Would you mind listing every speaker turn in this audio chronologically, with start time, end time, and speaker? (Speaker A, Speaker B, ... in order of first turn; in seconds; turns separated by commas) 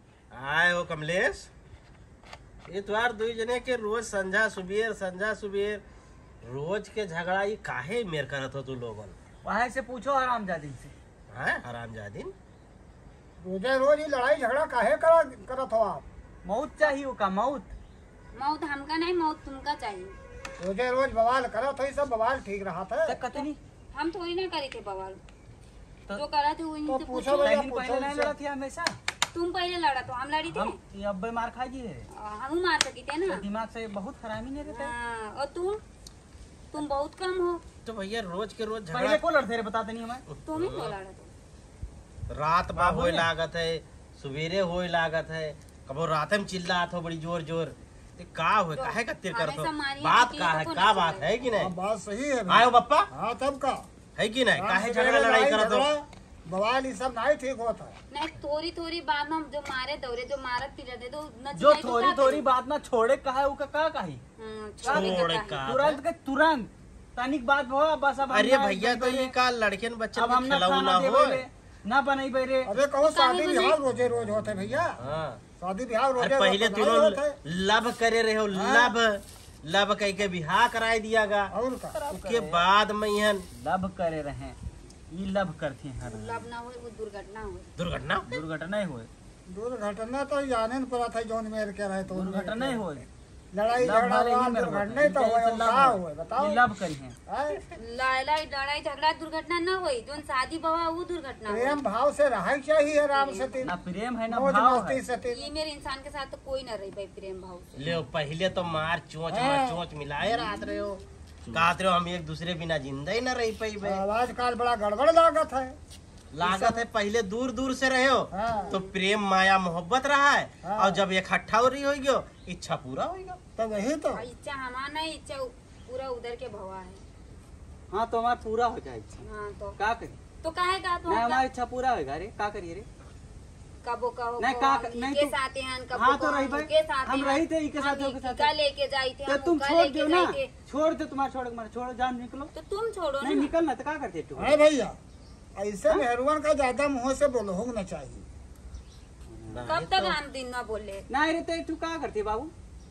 Speaker A: 0.3-1.5, Speaker A: 2.6-5.8, Speaker A: 6.4-9.1, Speaker B: 9.4-10.9, Speaker A: 11.3-12.3, Speaker C: 13.4-16.0, Speaker B: 16.4-17.7, Speaker D: 18.3-20.1, Speaker C: 20.6-23.2, Speaker B: 23.1-23.6, Speaker D: 23.3-25.2, Speaker D: 26.1-27.6, Speaker C: 26.9-28.3, Speaker B: 27.4-28.9, Speaker D: 29.3-30.8, Speaker B: 30.5-32.1, Speaker D: 32.1-33.4, Speaker B: 33.3-34.9, Speaker D: 34.7-35.8, Speaker D: 36.7-37.6, Speaker A: 37.8-39.2, Speaker B: 38.9-40.2, Speaker A: 40.3-40.9, Speaker D: 40.5-41.3, Speaker A: 42.3-51.7, Speaker B: 42.7-43.3, Speaker D: 48.8-51.4, Speaker C: 51.5-53.9, Speaker A: 52.5-53.1, Speaker A: 54.2-55.9, Speaker C: 54.5-58.0, Speaker D: 58.1-62.4, Speaker B: 61.5-64.2, Speaker D: 64.4-65.5, Speaker B: 64.8-69.3, Speaker A: 64.8-66.0, Speaker A: 68.2-71.4, Speaker B: 70.1-72.7, Speaker C: 72.6-75.0, Speaker D: 73.0-73.8, Speaker A: 75.0-75.4, Speaker C: 75.6-77.4, Speaker A: 76.2-81.5, Speaker C: 78.5-78.9, Speaker C: 81.5-82.0, Speaker B: 81.9-82.6, Speaker A: 82.1-83.5, Speaker B: 83.5-84.6, Speaker B: 85.1-86.5, Speaker D: 86.0-87.7, Speaker A: 87.8-88.4, Speaker B: 88.3-89.1, Speaker C: 89.5-92.8, Speaker B: 92.1-93.1, Speaker C: 93.5-96.6, Speaker B: 93.7-97.2, Speaker C: 97.3-97.6, Speaker D: 97.7-101.8, Speaker C: 101.5-103.7, Speaker D: 103.1-103.7, Speaker B: 103.6-105.0, Speaker C: 104.3-105.5, Speaker D: 105.3-107.7, Speaker A: 107.8-114.0, Speaker C: 109.3-109.8, Speaker C: 113.8-115.8, Speaker A: 116.3-123.4, Speaker C: 116.4-116.8, Speaker C: 118.3-118.8, Speaker D: 118.5-118.8, Speaker C: 120.6-121.0, Speaker C: 123.6-124.3, Speaker D: 124.1-127.0, Speaker B: 127.9-129.2, Speaker D: 129.2-129.8, Speaker B: 129.8-130.2, Speaker D: 130.4-131.4, Speaker B: 131.1-132.8, Speaker D: 133.8-140.5, Speaker B: 134.4-135.3, Speaker B: 135.9-138.5, Speaker B: 139.2-142.5, Speaker D: 142.5-143.5, Speaker B: 143.2-144.6, Speaker C: 144.3-145.0, Speaker C: 145.5-148.2, Speaker B: 149.3-149.7, Speaker A: 149.5-150.2, Speaker D: 149.7-151.1, Speaker B: 151.1-152.5